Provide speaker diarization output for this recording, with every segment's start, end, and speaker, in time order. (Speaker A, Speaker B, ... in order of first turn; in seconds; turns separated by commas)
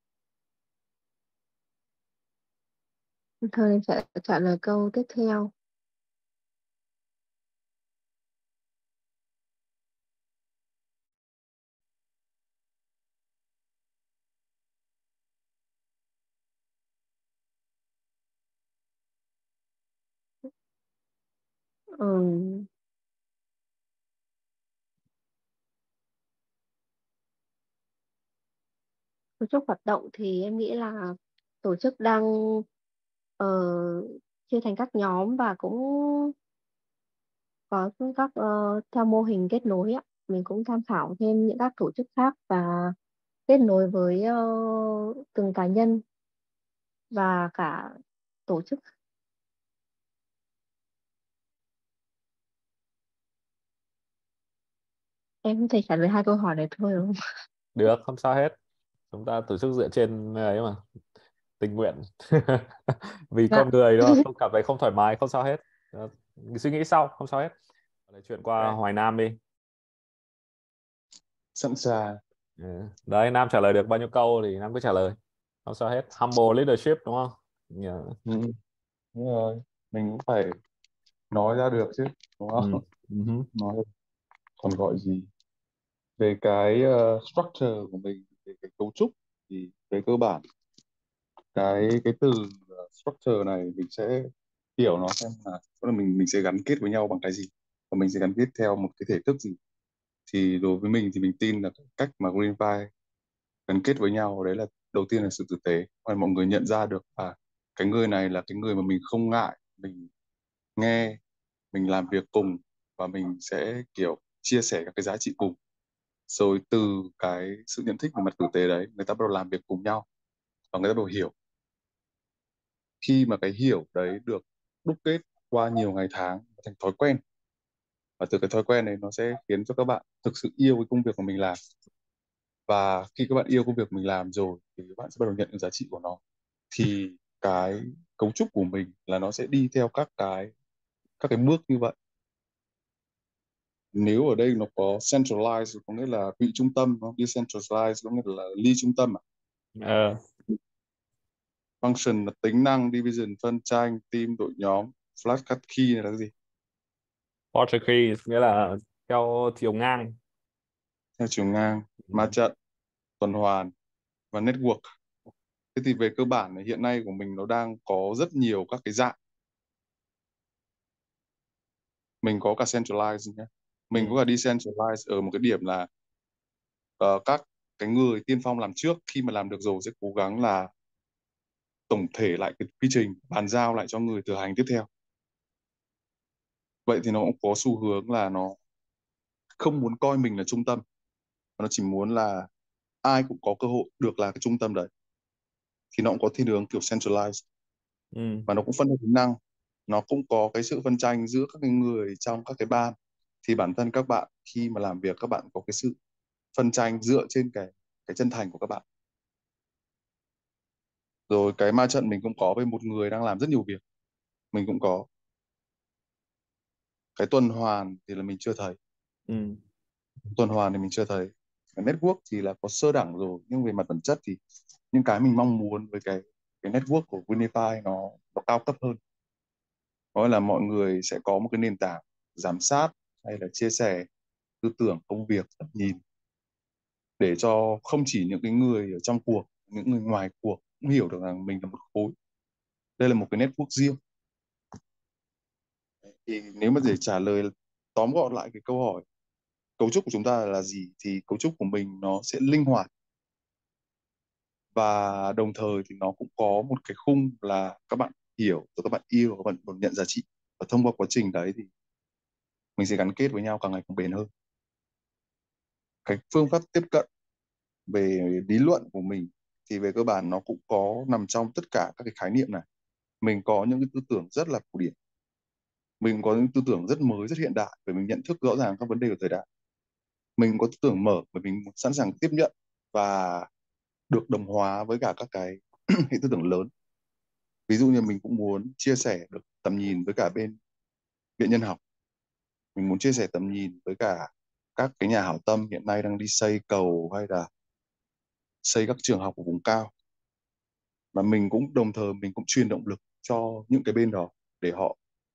Speaker A: 3.4-5.5, Speaker A: 22.0-22.7, Speaker A: 29.4-32.6, Speaker A: 33.4-36.3, Speaker A: 37.7-42.9, Speaker A: 43.5-46.0, Speaker A: 47.1-47.9, Speaker A: 48.5-48.8, Speaker A: 55.4-57.1, Speaker B: 57.7-58.5, Speaker B: 59.1-60.8, Speaker B: 61.6-67.5, Speaker A: 63.5-64.2, Speaker B: 68.1-69.4, Speaker C: 71.5-72.2, Speaker B: 72.6-78.2, Speaker C: 79.1-80.5, Speaker C: 81.3-82.8, Speaker B: 82.6-83.5, Speaker C: 83.5-83.8, Speaker C: 84.6-85.3, Speaker C: 86.2-90.4, Speaker C: 91.5-99.5, Speaker C: 100.3-102.9, Speaker C: 103.7-110.1, Speaker C: 110.8-111.2, Speaker C: 111.7-115.5, Speaker C: 116.3-120.0, Speaker C: 120.7-121.3, Speaker C: 123.0-127.2, Speaker C: 128.2-131.6, Speaker C: 132.7-136.2, Speaker C: 136.7-140.5, Speaker C: 141.2-141.9, Speaker C: 143.9-149.2, Speaker B: 149.8-150.2, Speaker C: 151.8-156.3, Speaker B: 157.5-160.2, Speaker C: 161.2-162.5, Speaker C: 163.2-163.7, Speaker C: 164.3-164.8, Speaker C: 165.7-169.1, Speaker C: 172.2-175.9, Speaker C: 177.0-180.7, Speaker C: 181.9-184.9, Speaker C: 186.9-188.6, Speaker C: 189.6-190.8, Speaker C: 191.6-192.5, Speaker C: 193.0-194.9, Speaker C: 195.9-197.4, Speaker B: 198.1-198.5, Speaker C: 198.5-199.4, Speaker C: 199.9-205.9, Speaker C: 206.5-208.8, Speaker C: 211.3-213.8, Speaker C: 214.5-215.1, Speaker C: 217.2-218.8, Speaker B: 219.3-219.6, Speaker C: 220.3-224.4, Speaker C: 224.9-229.0, Speaker C: 230.1-234.1, Speaker C: 234.6-236.0, Speaker C: 237.2-242.1, Speaker C: 243.0-244.0, Speaker C: 246.2-249.0, Speaker C: 249.8-252.9, Speaker C: 254.7-261.7, Speaker C: 262.8-264.3, Speaker C: 266.1-267.0, Speaker C: 267.9-272.6, Speaker C: 273.2-274.9, Speaker C: 276.0-279.4, Speaker C: 280.4-283.5, Speaker C: 284.1-286.7, Speaker C: 287.7-290.6, Speaker C: 291.4-291.8, Speaker C: 292.8-297.5, Speaker C: 298.6-299.9, Speaker C: 301.1-304.9